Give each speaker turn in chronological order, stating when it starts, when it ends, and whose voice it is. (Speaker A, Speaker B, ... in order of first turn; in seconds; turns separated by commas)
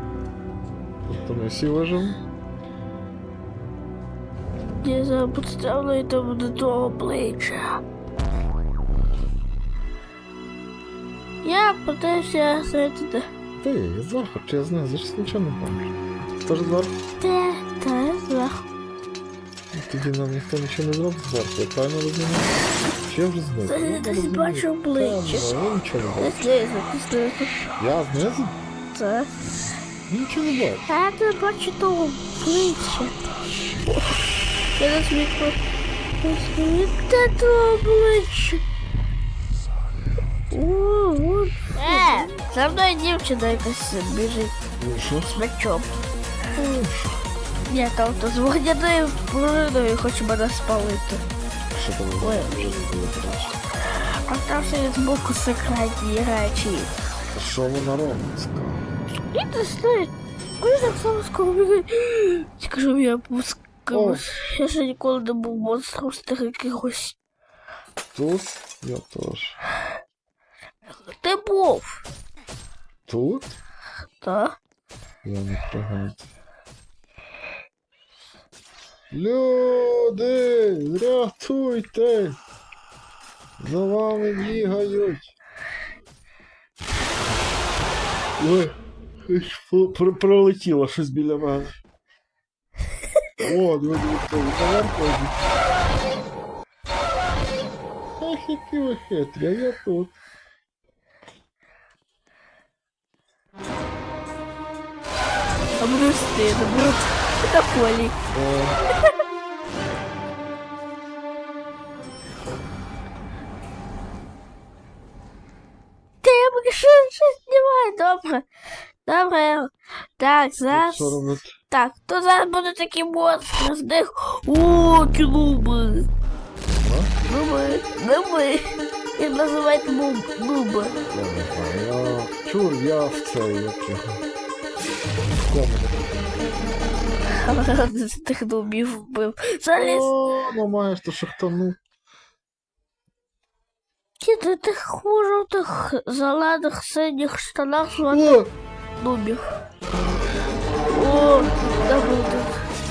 Speaker A: 1.1-2.2, Speaker B: 4.8-7.8, Speaker B: 11.4-13.3, Speaker A: 13.6-15.9, Speaker A: 16.4-16.9, Speaker B: 17.2-18.6, Speaker A: 19.7-22.5, Speaker A: 23.1-26.5, Speaker B: 23.7-25.5, Speaker B: 26.2-27.5, Speaker A: 27.8-28.6, Speaker B: 28.9-29.3, Speaker A: 30.1-30.9, Speaker B: 30.9-33.1, Speaker B: 33.9-34.2, Speaker B: 34.8-35.6, Speaker B: 36.2-38.6, Speaker B: 40.5-44.5, Speaker A: 44.8-45.4, Speaker B: 45.3-45.9, Speaker A: 46.5-47.2, Speaker B: 47.7-51.2, Speaker A: 51.7-53.6, Speaker B: 52.2-52.8, Speaker B: 54.3-56.9, Speaker A: 57.3-58.9, Speaker B: 59.3-67.2, Speaker A: 63.9-64.2, Speaker A: 68.1-69.6, Speaker B: 71.1-72.0, Speaker A: 73.1-73.5, Speaker B: 74.2-74.6, Speaker A: 75.2-76.3, Speaker A: 79.1-82.4, Speaker A: 83.6-85.4, Speaker A: 88.4-88.8, Speaker A: 89.3-91.8, Speaker A: 93.4-95.4, Speaker A: 98.2-100.1, Speaker B: 105.8-108.2, Speaker A: 108.3-108.8, Speaker B: 116.2-118.5, Speaker B: 119.0-121.2, Speaker A: 120.7-121.5, Speaker B: 121.7-126.1, Speaker A: 126.8-127.1, Speaker B: 127.2-131.0, Speaker A: 131.1-134.2, Speaker A: 135.4-136.2, Speaker B: 137.3-140.1, Speaker A: 139.8-141.8, Speaker B: 144.2-148.4, Speaker A: 148.1-148.5, Speaker B: 149.0-149.4, Speaker B: 150.9-152.6